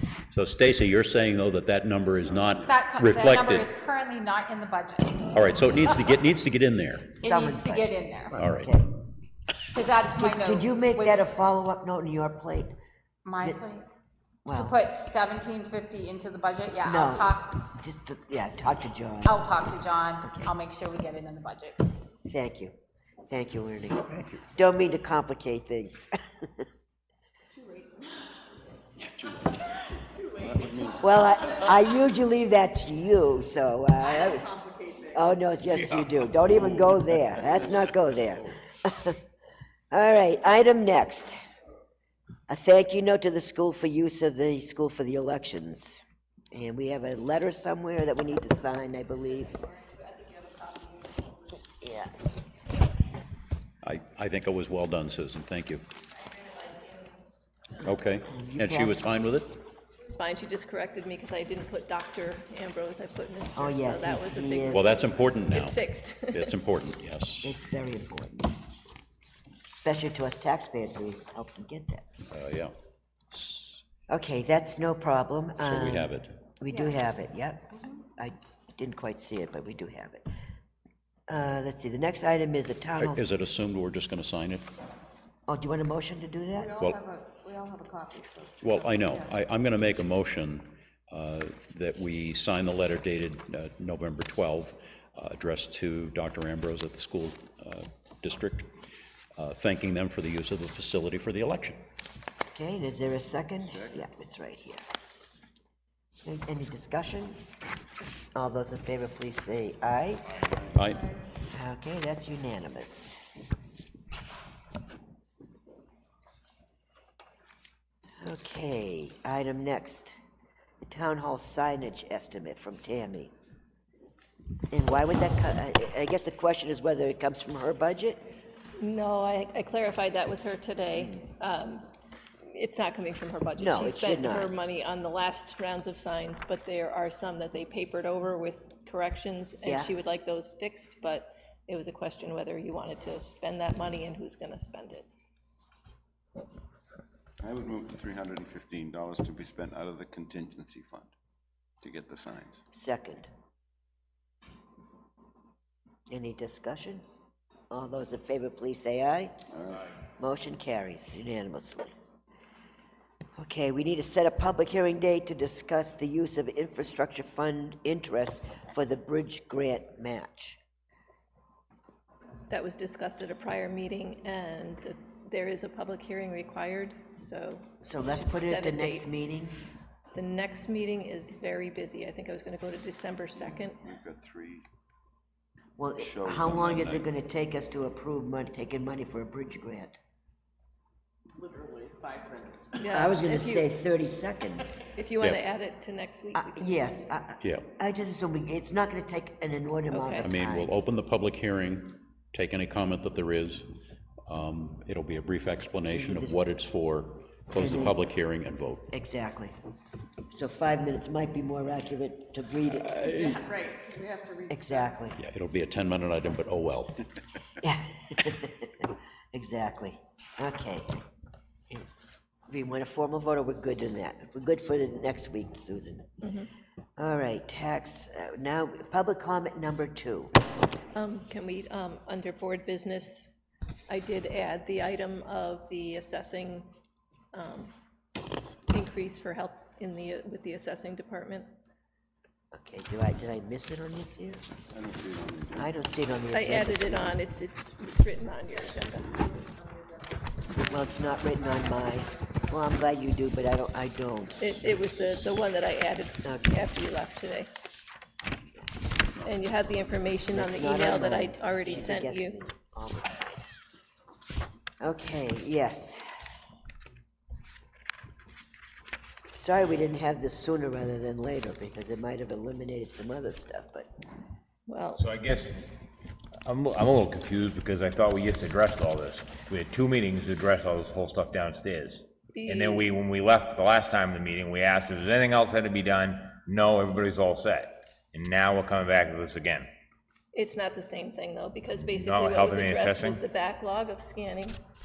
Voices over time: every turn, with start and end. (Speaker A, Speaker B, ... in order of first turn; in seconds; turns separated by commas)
Speaker A: 0.3-3.7, Speaker B: 2.7-5.4, Speaker A: 5.3-7.2, Speaker C: 7.2-8.0, Speaker B: 7.2-8.4, Speaker A: 8.3-8.7, Speaker C: 8.5-8.9, Speaker B: 9.7-11.4, Speaker C: 10.1-12.8, Speaker B: 13.2-13.8, Speaker C: 14.4-14.8, Speaker B: 14.5-17.6, Speaker C: 16.8-19.5, Speaker B: 19.3-21.8, Speaker C: 20.2-20.5, Speaker C: 22.3-22.7, Speaker C: 23.3-26.1, Speaker D: 30.2-30.8, Speaker E: 30.4-31.0, Speaker C: 31.0-34.5, Speaker D: 34.6-35.1, Speaker C: 35.1-39.2, Speaker C: 39.9-41.4, Speaker C: 42.5-49.6, Speaker C: 51.7-52.1, Speaker A: 53.8-55.8, Speaker F: 56.4-57.0, Speaker A: 57.8-59.5, Speaker C: 58.3-59.0, Speaker F: 60.1-66.5, Speaker C: 63.5-64.9, Speaker A: 64.7-65.8, Speaker A: 66.3-67.5, Speaker C: 67.4-68.5, Speaker C: 69.7-72.1, Speaker A: 72.3-72.7, Speaker A: 73.3-73.8, Speaker C: 74.1-80.2, Speaker A: 75.6-76.3, Speaker C: 81.3-83.3, Speaker A: 83.0-84.7, Speaker C: 85.5-86.8, Speaker D: 86.7-89.0, Speaker A: 86.8-87.0, Speaker A: 88.6-98.7, Speaker A: 99.4-101.8, Speaker C: 102.5-104.8, Speaker E: 103.6-104.0, Speaker C: 106.2-107.4, Speaker C: 108.3-110.3, Speaker E: 110.4-110.8, Speaker A: 110.7-111.1, Speaker C: 111.5-113.2, Speaker C: 118.2-120.2, Speaker C: 120.8-123.3, Speaker C: 124.7-128.3, Speaker F: 128.8-131.9, Speaker F: 132.4-145.1, Speaker C: 133.6-134.5, Speaker C: 139.6-139.9, Speaker E: 147.4-151.1, Speaker E: 151.8-152.6, Speaker C: 152.7-153.3, Speaker C: 156.1-157.1, Speaker C: 157.7-159.3, Speaker E: 159.5-159.8, Speaker C: 160.2-161.9, Speaker C: 163.4-170.6, Speaker F: 172.5-179.1, Speaker C: 177.8-179.6, Speaker F: 180.1-183.8, Speaker E: 183.4-184.7, Speaker C: 185.8-190.0, Speaker E: 186.0-187.1, Speaker D: 191.4-192.7, Speaker F: 192.8-193.7, Speaker C: 192.9-194.8, Speaker F: 194.7-197.0, Speaker C: 196.3-200.7, Speaker F: 199.9-200.3, Speaker A: 200.2-203.7, Speaker A: 204.3-208.9, Speaker C: 205.9-206.4, Speaker C: 207.6-208.0, Speaker C: 208.9-209.6, Speaker C: 210.3-213.4, Speaker A: 212.9-213.4, Speaker D: 213.5-214.8, Speaker C: 214.5-215.2, Speaker A: 215.2-217.1, Speaker C: 217.6-220.9, Speaker C: 222.5-226.2, Speaker F: 226.2-226.5, Speaker C: 227.0-230.3, Speaker F: 230.9-233.3, Speaker F: 233.9-236.7, Speaker F: 237.3-237.7, Speaker F: 238.7-241.5, Speaker C: 242.5-244.4, Speaker E: 244.7-245.7, Speaker C: 245.6-247.2, Speaker F: 246.3-249.2, Speaker D: 249.2-249.7, Speaker C: 250.5-254.5, Speaker F: 254.4-257.5, Speaker C: 256.2-256.5, Speaker F: 259.2-262.4, Speaker C: 260.3-263.4, Speaker C: 264.8-266.0, Speaker C: 269.3-273.9, Speaker F: 274.7-275.1, Speaker G: 275.0-275.6, Speaker G: 276.4-289.7, Speaker F: 282.3-283.0, Speaker F: 290.3-294.6, Speaker G: 291.8-293.2